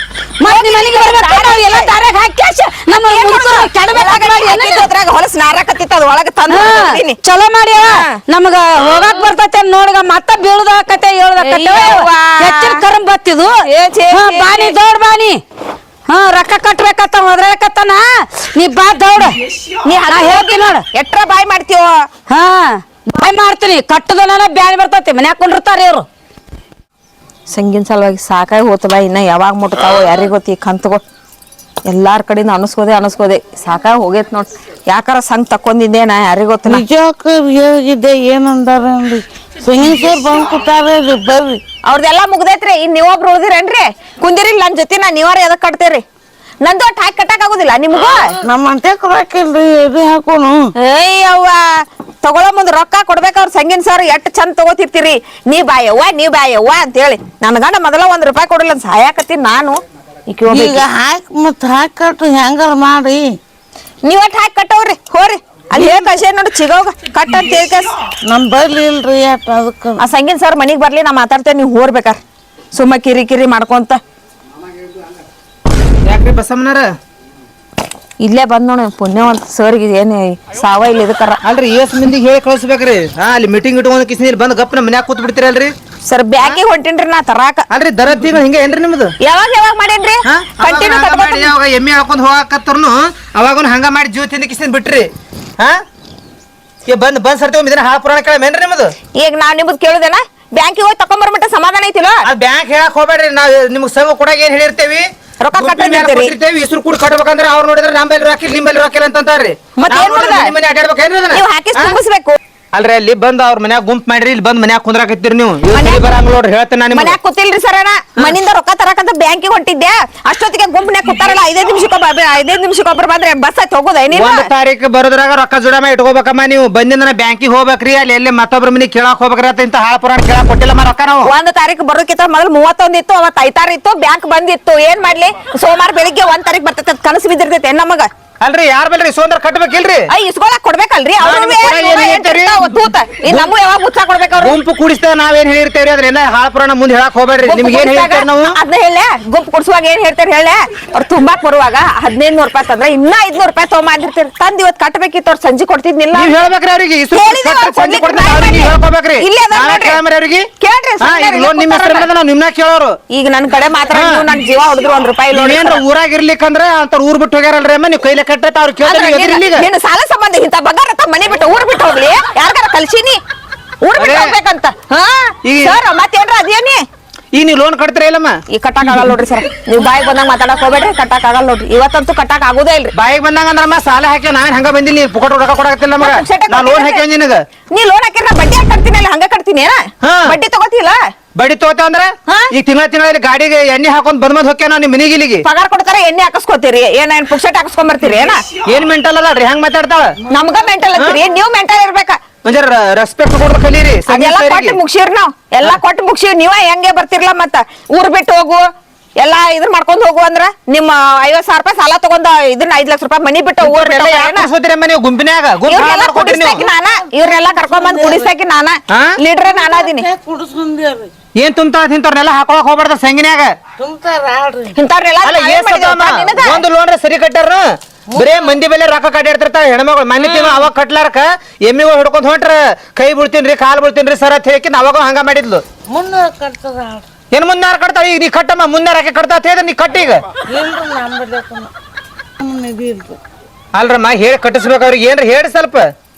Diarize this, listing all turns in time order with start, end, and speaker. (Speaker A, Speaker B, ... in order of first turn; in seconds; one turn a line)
Speaker A: 0.4-4.9
Speaker B: 0.4-1.9
Speaker B: 2.9-7.2
Speaker A: 6.5-13.5
Speaker B: 7.8-8.2
Speaker B: 11.4-12.8
Speaker B: 13.7-14.8
Speaker A: 14.1-15.4
Speaker A: 16.1-19.5
Speaker B: 19.8-22.1
Speaker A: 20.1-20.8
Speaker A: 22.3-26.1
Speaker B: 27.5-31.0
Speaker B: 31.9-36.9
Speaker C: 36.7-41.6
Speaker B: 41.9-46.0
Speaker B: 46.6-48.4
Speaker C: 48.4-50.7
Speaker B: 50.8-60.9
Speaker C: 60.5-63.4
Speaker B: 64.0-67.9
Speaker C: 68.3-70.0
Speaker B: 70.0-72.2
Speaker B: 72.7-74.0
Speaker D: 76.0-76.9
Speaker B: 78.2-81.4
Speaker D: 81.4-85.7
Speaker B: 86.1-87.7
Speaker D: 87.7-89.1
Speaker B: 89.2-91.5
Speaker D: 90.3-95.8
Speaker D: 96.9-98.9
Speaker B: 99.2-102.2
Speaker D: 102.3-111.9
Speaker B: 105.4-106.3
Speaker B: 109.8-110.5
Speaker B: 111.3-112.4
Speaker D: 112.7-117.2
Speaker B: 115.7-116.2
Speaker B: 116.9-124.5
Speaker D: 124.1-131.3
Speaker B: 131.3-138.1
Speaker D: 138.4-140.1
Speaker B: 140.1-144.6
Speaker D: 141.2-142.6
Speaker D: 144.4-148.5
Speaker B: 147.5-156.4
Speaker D: 156.1-160.5
Speaker B: 157.1-160.0
Speaker B: 160.6-162.1
Speaker D: 161.0-163.0
Speaker B: 163.1-165.8
Speaker D: 163.9-164.2
Speaker D: 165.3-169.7
Speaker B: 168.8-173.2
Speaker B: 173.8-176.8
Speaker D: 174.0-174.3
Speaker D: 175.4-175.8
Speaker D: 177.3-178.4
Speaker B: 178.5-182.9
Speaker D: 182.9-187.4
Speaker B: 186.0-187.0
Speaker B: 187.7-191.0
Speaker D: 190.0-190.4
Speaker D: 191.3-195.4
Speaker B: 195.4-198.4
Speaker D: 198.7-200.2
Speaker B: 200.3-202.2
Speaker D: 202.4-204.8
Speaker B: 204.1-208.6
Speaker B: 209.2-214.5
Speaker D: 213.6-216.6
Speaker B: 215.7-220.1
Speaker C: 217.6-218.2
Speaker C: 219.5-221.1
Speaker D: 221.4-223.6
Speaker C: 223.8-224.7
Speaker B: 224.7-226.6
Speaker D: 225.2-235.6
Speaker C: 228.1-228.6
Speaker C: 230.2-230.5
Speaker C: 235.9-237.1
Speaker D: 237.3-240.2
Speaker C: 240.5-241.7
Speaker C: 242.4-243.2
Speaker D: 243.7-245.9